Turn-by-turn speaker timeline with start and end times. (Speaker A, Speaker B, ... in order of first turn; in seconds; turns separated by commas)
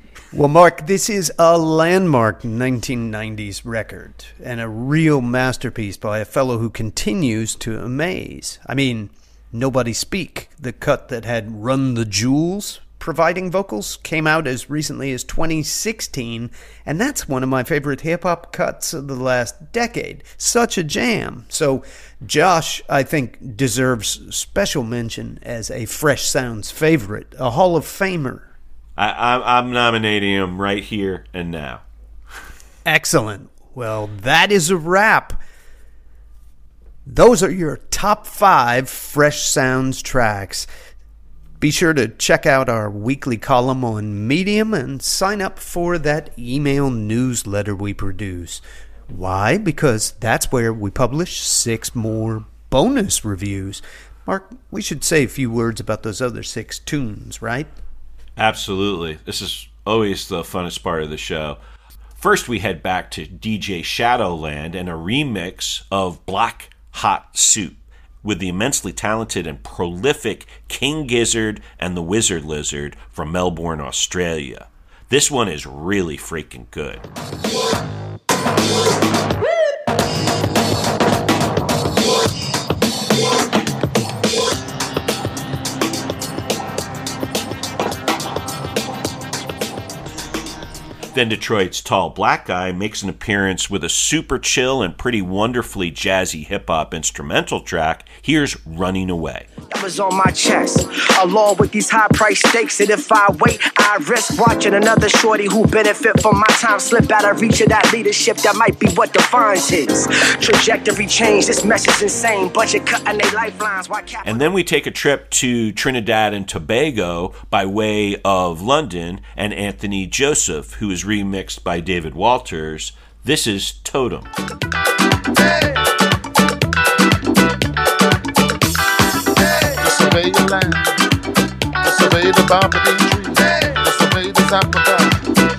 Speaker A: 0.3-28.5, Speaker B: 29.0-31.8, Speaker A: 32.9-35.4, Speaker A: 37.1-40.7, Speaker A: 41.6-57.7, Speaker B: 58.4-61.6, Speaker B: 62.2-77.1, Speaker B: 91.1-99.5, Speaker C: 99.7-114.4, Speaker B: 114.2-124.3, Speaker D: 129.6-131.0, Speaker D: 131.8-135.2